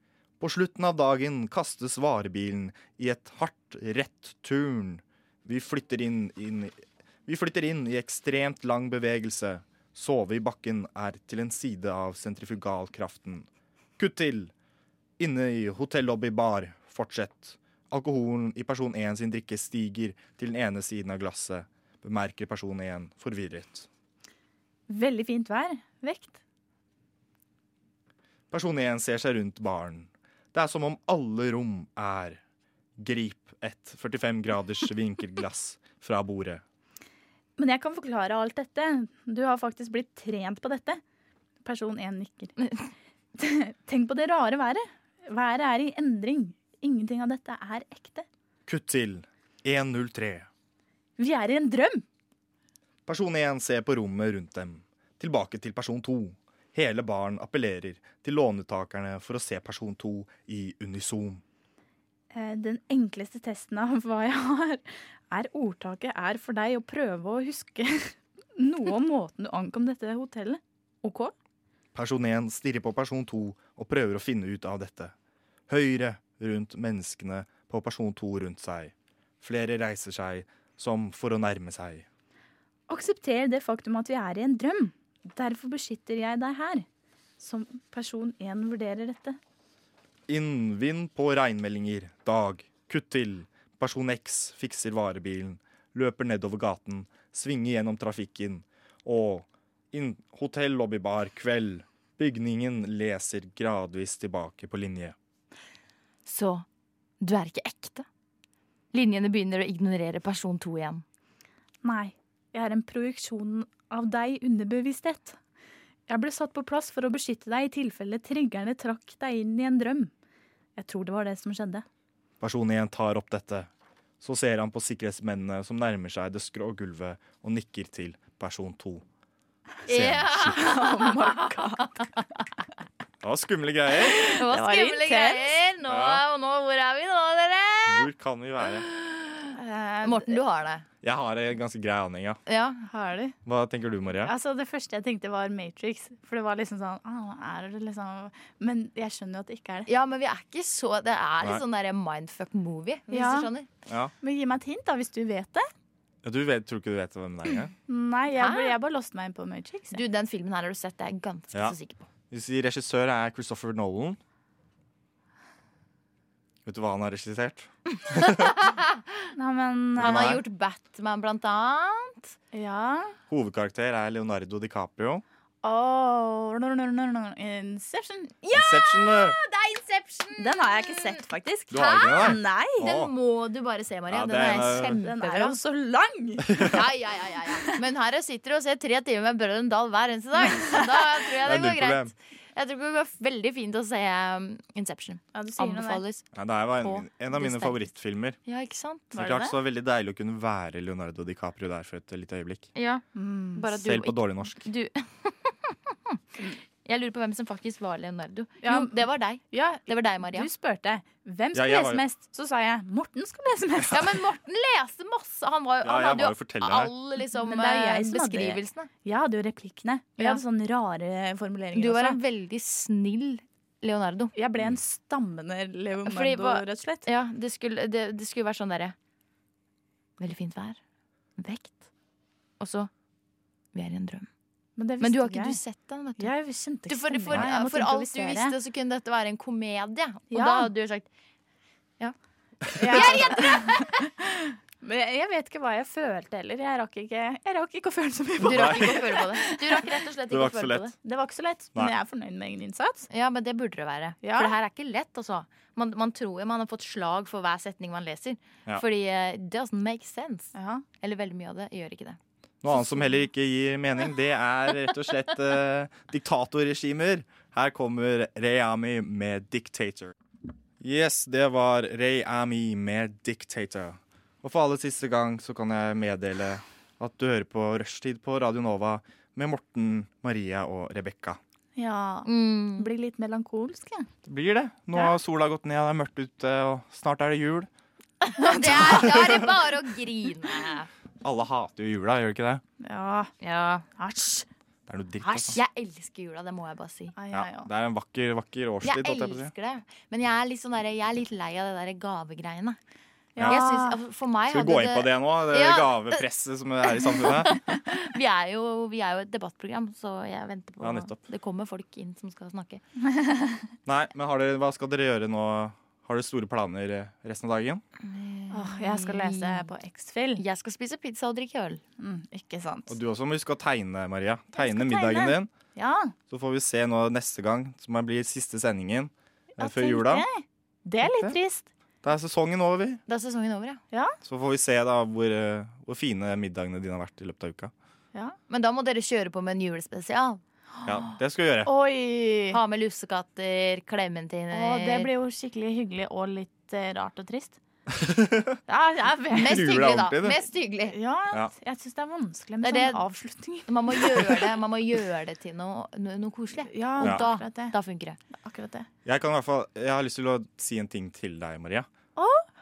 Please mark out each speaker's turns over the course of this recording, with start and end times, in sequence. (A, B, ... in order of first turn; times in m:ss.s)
0:00.4-0:14.5 A
0:15.2-0:23.9 A
0:24.9-0:26.4 B
0:28.5-0:32.4 A
0:33.0-0:36.6 A
0:37.6-0:41.0 B
0:41.6-0:42.6 B
0:43.4-0:48.3 B
0:48.7-0:50.5 A
0:51.2-0:52.0 B
0:53.1-1:01.4 A
1:02.3-1:11.3 B
1:11.9-1:15.1 A
1:15.7-1:22.1 A
1:22.9-1:26.9 B
1:27.4-1:29.4 B
1:30.3-1:45.2 A
1:46.3-1:46.6 C
1:47.2-1:48.0 C
1:48.9-1:51.0 C
1:51.8-1:55.4 B
1:56.1-2:00.1 B
2:00.8-2:01.8 B
2:02.4-2:03.7 A
2:04.2-2:09.0 A
2:09.9-2:10.5 A
2:09.9-2:11.5 C
2:10.3-2:12.1 B
2:13.2-2:14.2 A
2:14.1-2:15.6 B
2:14.4-2:18.1 C
2:15.9-2:16.2 A
2:17.9-2:18.9 A
2:18.8-2:19.5 C
2:19.5-2:20.4 B
2:20.0-2:20.8 C
2:21.0-2:22.4 A
2:22.5-2:22.8 C
2:22.9-2:23.4 B
2:23.5-2:24.3 A
2:24.2-2:29.9 B
2:29.9-2:33.7 C
2:33.1-2:33.5 B
2:33.9-2:34.1 A
2:34.2-2:35.7 B
2:36.2-2:37.7 A
2:37.9-2:40.0 B
2:38.4-2:38.7 C
2:39.9-2:42.1 C
2:42.3-2:44.2 A
2:46.6-2:48.5 A
2:48.1-2:49.3 C
2:49.4-2:50.3 B
2:50.0-2:50.4 A
2:50.0-2:52.4 C
2:52.5-2:53.2 B
2:53.3-2:55.2 A
2:55.6-2:58.5 B
2:58.4-3:05.6 C
2:58.5-2:59.4 A
3:00.4-3:02.9 B
3:01.7-3:03.1 A
3:04.1-3:05.0 A
3:04.4-3:06.8 B
3:06.5-3:06.8 A
3:06.6-3:17.9 C
3:10.4-3:10.8 B
3:11.4-3:12.1 A
3:15.3-3:16.0 B
3:16.3-3:18.4 A
3:18.5-3:19.2 C
3:19.1-3:22.7 A
3:19.2-3:19.5 B
3:22.8-3:23.0 C
3:23.2-3:23.7 B
3:23.6-3:26.2 C
3:23.8-3:24.7 A
3:26.8-3:30.5 C
3:28.6-3:34.2 B
3:31.5-3:32.0 A
3:33.9-3:38.9 C
3:35.8-3:36.9 A
3:37.4-3:42.2 B
3:41.8-3:44.3 C
3:44.4-3:47.1 B
3:46.1-3:49.0 C
3:50.2-3:50.8 C
3:51.4-3:51.9 C
3:52.6-3:52.9 C
3:53.7-3:54.3 C
3:54.8-3:55.6 B
3:55.0-3:56.3 C
3:56.2-3:58.6 B
3:56.9-4:01.1 C
4:00.3-4:00.7 B
4:02.7-4:09.8 B
4:02.8-4:04.0 C
4:08.4-4:09.1 A
4:08.4-4:11.0 C
4:10.3-4:10.9 A
4:11.0-4:13.1 B
4:13.1-4:22.2 C
4:14.2-4:14.5 B
4:20.6-4:20.8 B
4:22.6-4:30.1 A
4:22.7-4:23.2 C
4:30.8-4:41.4 A
4:41.8-4:44.1 B
4:42.2-4:42.9 C
4:44.2-4:47.7 A
4:48.2-4:50.9 C
4:48.4-4:49.5 B
4:48.7-4:49.4 A
4:51.2-4:52.6 A
4:52.8-4:53.3 B
4:53.4-4:53.9 C
4:54.0-4:54.5 B
4:54.9-4:55.6 A
4:55.2-4:57.1 C
4:57.2-4:57.7 B
4:57.3-4:59.5 A
4:58.8-5:02.8 C
5:03.4-5:04.0 B
5:03.4-5:03.6 A
5:03.5-5:06.2 C
5:04.5-5:07.5 A
5:07.0-5:12.8 C
5:10.8-5:11.2 A
5:13.1-5:13.6 B
5:13.9-5:17.8 A
5:18.0-5:19.7 C
5:18.5-5:20.4 B
5:20.4-5:21.8 C
5:22.0-5:23.0 B
5:22.9-5:25.5 A
5:24.6-5:26.1 B
5:26.3-5:30.3 A
5:29.6-5:31.7 B
5:31.0-5:31.4 A
5:32.0-5:33.0 A
5:33.1-5:33.8 C
5:34.2-5:37.7 A
5:38.5-5:40.4 C
5:40.8-5:41.7 A
5:41.7-5:42.6 B
5:42.5-5:45.1 C
5:44.5-5:47.6 B
5:47.9-5:48.6 A
5:48.7-5:49.6 B
5:49.3-5:51.0 C
5:49.4-5:50.4 A
5:50.9-5:54.6 B
5:52.6-5:53.0 C
5:53.7-5:58.2 C
5:56.7-5:57.8 B
5:58.3-5:58.9 B
5:59.0-6:01.9 A
6:02.2-6:02.5 B